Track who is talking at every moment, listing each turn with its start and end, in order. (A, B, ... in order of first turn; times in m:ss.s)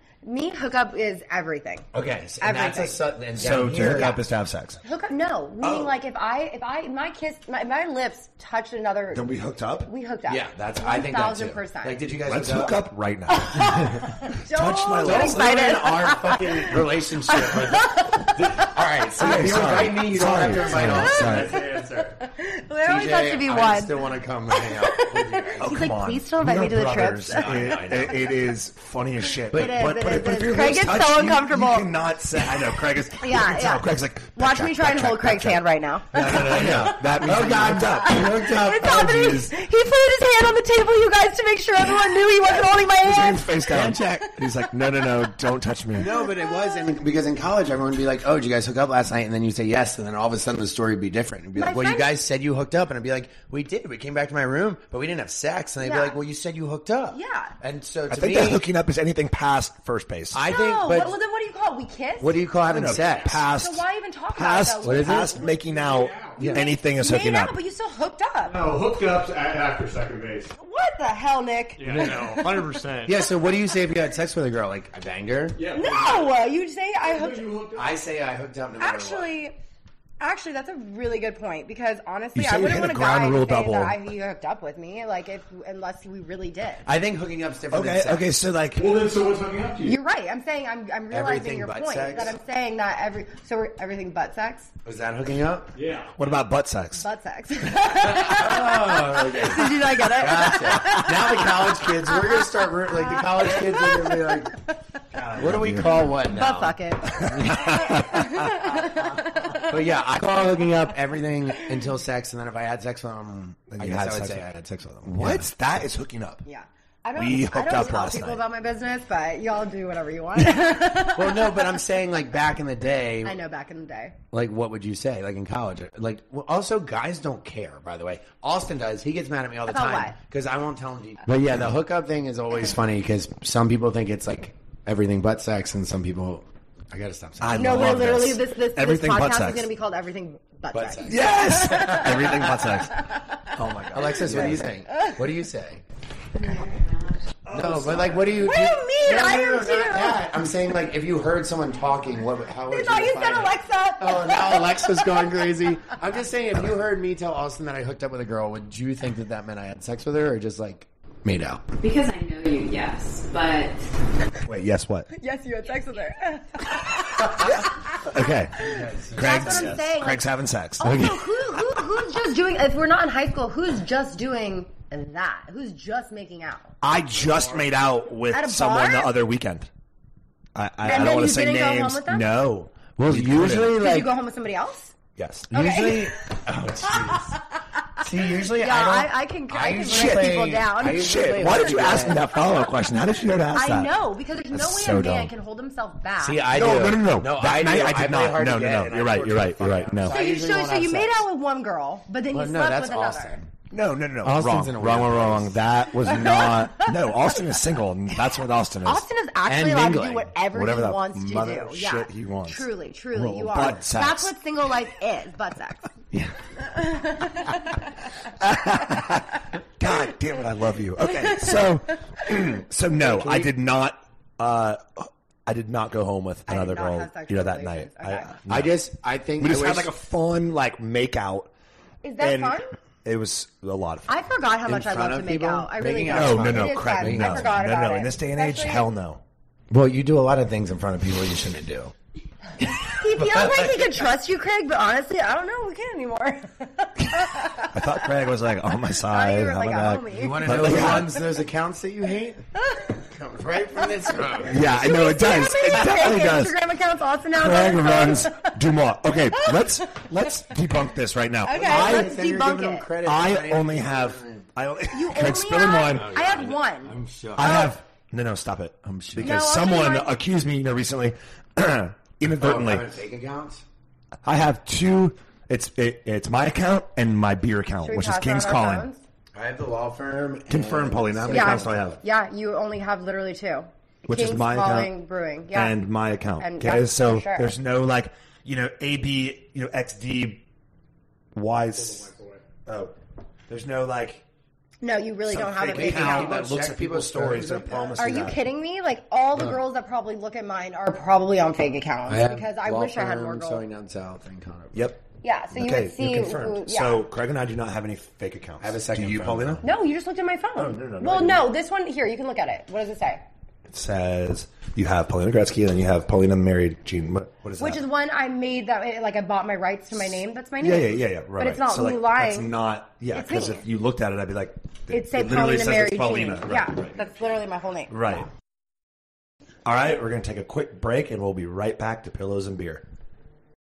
0:00.2-0:01.9 A
0:01.9-0:04.2 B
0:02.4-0:03.0 A
0:03.4-0:04.8 C
0:03.7-0:04.2 A
0:04.8-0:12.0 A
0:05.6-0:05.9 C
0:09.1-0:09.9 C
0:10.3-0:12.8 B
0:12.3-0:13.8 C
0:13.4-0:16.8 A
0:14.4-0:15.8 C
0:15.0-0:21.5 B
0:17.3-0:18.7 A
0:19.2-0:21.6 C
0:19.2-0:28.1 A
0:20.8-0:22.2 D
0:22.8-0:25.7 B
0:25.6-0:35.6 C
0:27.3-0:28.3 B
0:29.5-0:29.8 B
0:29.5-0:31.9 A
0:33.2-0:43.7 A
0:36.1-0:39.5 C
0:36.2-0:39.1 B
0:43.0-0:46.1 C
0:43.7-0:44.3 B
0:46.0-0:58.6 B
0:46.0-0:46.9 A
0:51.6-0:52.1 A
0:55.8-0:56.2 A
0:57.1-0:57.6 A
0:58.1-1:00.4 C
1:00.3-1:01.2 B
1:00.5-1:05.5 A
1:02.2-1:03.4 B
1:02.7-1:07.6 C
1:04.8-1:05.4 B
1:05.4-1:06.4 D
1:06.4-1:06.6 B
1:06.4-1:08.6 A
1:08.4-1:10.5 D
1:10.6-1:12.8 A
1:11.8-1:13.3 D
1:13.0-1:15.6 B
1:15.6-1:16.4 D
1:15.7-1:17.5 A
1:17.0-1:18.0 D
1:17.8-1:19.3 B
1:18.8-1:19.6 A
1:20.2-1:26.8 A
1:22.4-1:24.0 C
1:26.9-1:28.3 B
1:27.7-1:28.9 C
1:28.8-1:30.0 D
1:29.8-1:34.7 A
1:31.1-1:32.4 B
1:34.8-1:35.7 B
1:35.8-1:36.1 D
1:36.2-1:37.0 C
1:37.0-1:44.7 A
1:38.0-1:44.6 B
1:45.1-1:46.1 C
1:45.4-1:47.7 B
1:46.2-1:49.8 A
1:47.2-1:49.4 C
1:49.7-1:55.5 B
1:53.7-1:54.5 C
1:55.0-1:56.4 C
1:56.4-2:01.6 A
1:57.2-1:58.4 C
2:01.2-2:03.4 B
2:03.2-2:04.2 A
2:04.3-2:18.0 B
2:09.7-2:10.2 A
2:17.4-2:19.7 C
2:17.6-2:23.4 A
2:20.7-2:22.4 B
2:21.0-2:24.7 C
2:23.9-2:25.8 B
2:24.4-2:25.2 A
2:27.5-2:28.4 C
2:27.5-2:41.6 B
2:28.4-2:30.2 A
2:32.7-2:35.5 A
2:41.8-2:43.8 E
2:44.4-2:45.1 C
2:45.1-2:48.0 A
2:47.4-2:51.0 C
2:48.6-2:49.8 B
2:49.2-2:56.7 A
2:50.8-2:51.2 B
2:56.8-2:59.7 C
2:58.3-2:59.2 A
3:00.6-3:03.8 C
3:00.8-3:02.3 A
3:03.0-3:04.1 B
3:03.7-3:04.9 A
3:05.2-3:05.5 C
3:05.5-3:07.3 B
3:05.5-3:06.2 A
3:08.0-3:12.2 B
3:08.6-3:12.0 A
3:09.8-3:13.9 C
3:13.5-3:16.5 A
3:14.5-3:15.3 C
3:16.2-3:21.2 B
3:16.5-3:20.2 C
3:20.1-3:23.4 A
3:22.3-3:23.4 B
3:23.7-3:29.0 C
3:24.2-3:25.6 B
3:26.1-3:27.4 A
3:28.8-3:35.9 A
3:29.5-3:30.3 B
3:30.5-3:34.3 C
3:36.6-3:37.8 A
3:38.4-3:48.8 C
3:41.1-3:41.7 A
3:43.0-3:43.5 B
3:46.5-3:48.4 A
3:48.5-3:49.9 B
3:49.4-3:51.5 C
3:52.0-3:52.8 A
3:52.2-3:54.2 C
3:54.1-3:58.9 A
3:54.7-3:57.5 B
3:56.1-3:59.2 C
3:59.7-4:01.9 B
4:02.6-4:04.0 B
4:02.8-4:08.0 A
4:07.7-4:11.2 C
4:09.1-4:11.2 A
4:10.1-4:12.5 B
4:12.6-4:13.0 A
4:13.1-4:14.7 B
4:14.4-4:18.5 A
4:14.5-4:16.6 C
4:17.3-4:22.2 C
4:19.3-4:20.1 A
4:21.4-4:22.9 A
4:21.5-4:24.5 B
4:23.0-4:26.2 C
4:24.9-4:27.8 A
4:25.9-4:27.7 B
4:27.4-4:33.0 C
4:28.9-4:29.4 B
4:29.2-4:30.1 A
4:32.4-4:33.6 B
4:34.2-4:38.9 C
4:37.8-4:39.0 A
4:39.4-4:42.0 B
4:40.5-4:42.0 C
4:41.3-4:45.8 A
4:44.1-4:45.0 C
4:45.5-4:50.4 C
4:46.4-4:47.5 A
4:51.3-4:52.1 C
4:51.8-4:52.4 D
4:52.7-4:52.9 C
4:53.5-4:54.2 C
4:54.8-4:56.3 A
4:55.3-4:58.4 C
4:55.6-4:58.2 B
4:58.0-5:03.6 A
5:02.1-5:04.9 B
5:04.7-5:09.6 C
5:05.2-5:07.1 A
5:08.6-5:09.6 B
5:09.6-5:13.2 A
5:10.6-5:11.5 C
5:13.7-5:17.8 C
5:17.6-5:22.6 A
5:20.6-5:27.2 C
5:23.1-5:23.6 A
5:24.9-5:28.3 A
5:27.9-5:28.3 C
5:29.6-5:32.8 C